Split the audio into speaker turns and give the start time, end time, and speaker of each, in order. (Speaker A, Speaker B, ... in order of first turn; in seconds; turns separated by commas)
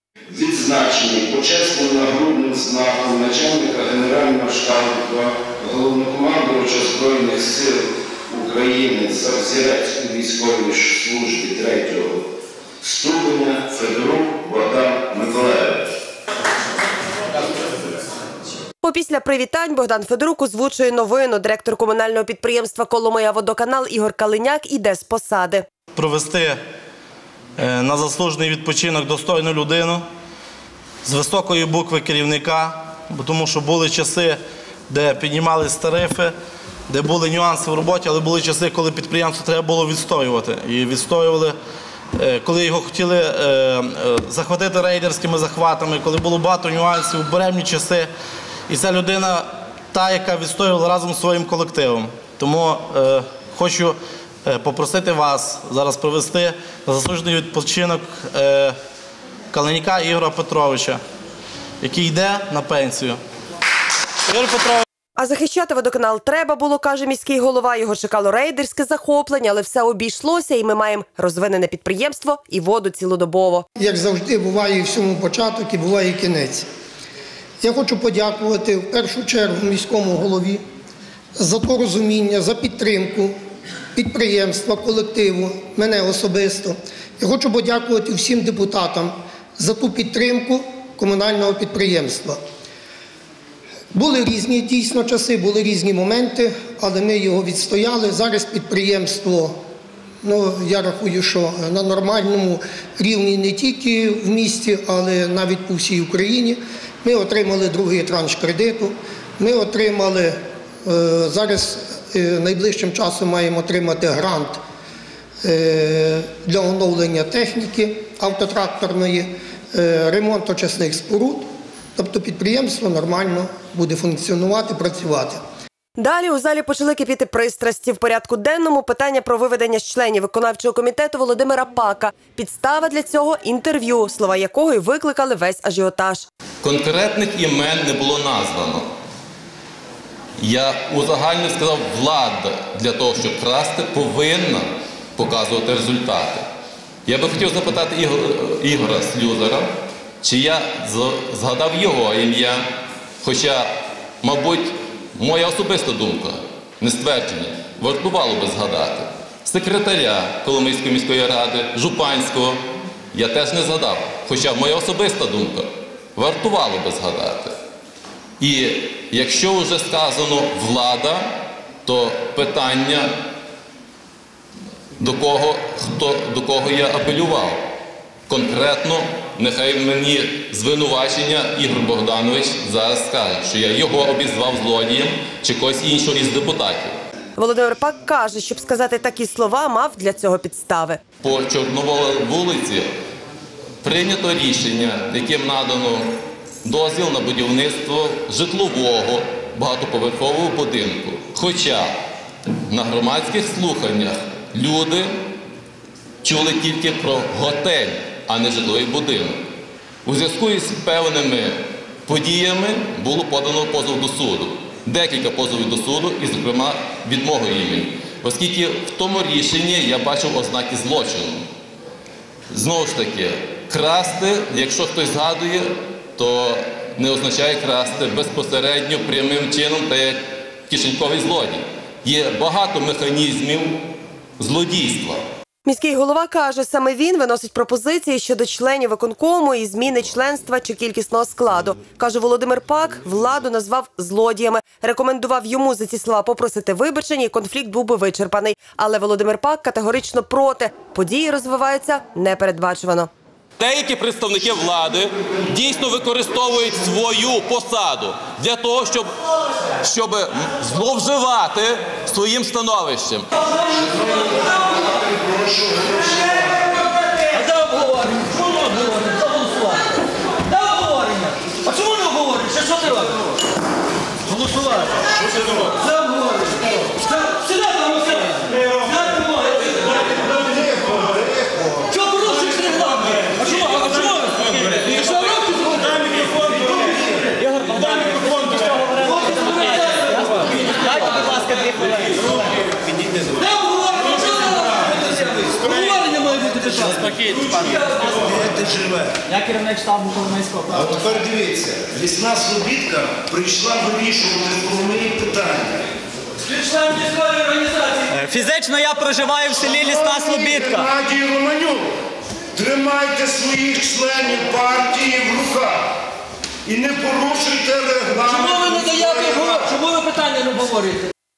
Speaker A: 0.3-12.2, Speaker A: 12.8-15.9, Speaker B: 18.8-25.6, Speaker C: 25.9-26.6, Speaker C: 27.6-30.0, Speaker C: 31.0-34.4, Speaker C: 34.9-36.3, Speaker C: 36.9-41.5, Speaker C: 42.1-48.1, Speaker C: 48.7-58.7, Speaker C: 59.5-61.0, Speaker C: 61.8-63.2, Speaker C: 64.3-64.8, Speaker B: 65.2-73.7, Speaker D: 73.8-76.7, Speaker D: 77.6-80.6, Speaker D: 81.4-83.3, Speaker D: 83.9-92.4, Speaker D: 93.9-99.5, Speaker D: 100.2-114.6, Speaker D: 115.4-125.4, Speaker B: 126.0-136.3, Speaker E: 136.6-138.8, Speaker E: 140.4-146.4, Speaker E: 147.1-149.7, Speaker E: 150.2-152.6, Speaker E: 153.2-153.7, Speaker E: 154.2-162.6, Speaker E: 163.1-167.5, Speaker E: 168.4-171.2, Speaker E: 171.8-173.1, Speaker E: 175.0-177.6, Speaker E: 178.3-186.9, Speaker B: 187.4-191.0, Speaker E: 191.2-192.9, Speaker E: 193.8-201.9, Speaker E: 202.7-205.1, Speaker E: 206.2-209.4, Speaker E: 210.0-221.4, Speaker E: 222.5-233.8, Speaker E: 234.4-235.2, Speaker B: 235.6-253.1, Speaker E: 253.6-259.1, Speaker E: 259.8-263.3, Speaker F: 263.8-264.4, Speaker G: 265.3-265.7, Speaker F: 266.6-269.9, Speaker F: 270.4-273.2, Speaker F: 274.3-275.0, Speaker F: 275.6-280.7, Speaker F: 281.8-288.0, Speaker H: 287.4-289.6, Speaker F: 288.9-291.4, Speaker H: 290.4-292.2, Speaker F: 293.3-298.3, Speaker G: 298.2-299.1, Speaker H: 299.3-300.8, Speaker G: 300.7-305.9, Speaker F: 306.4-308.1, Speaker H: 308.1-310.9, Speaker G: 309.6-311.9, Speaker G: 312.5-315.9, Speaker G: 316.6-319.7, Speaker F: 318.4-321.1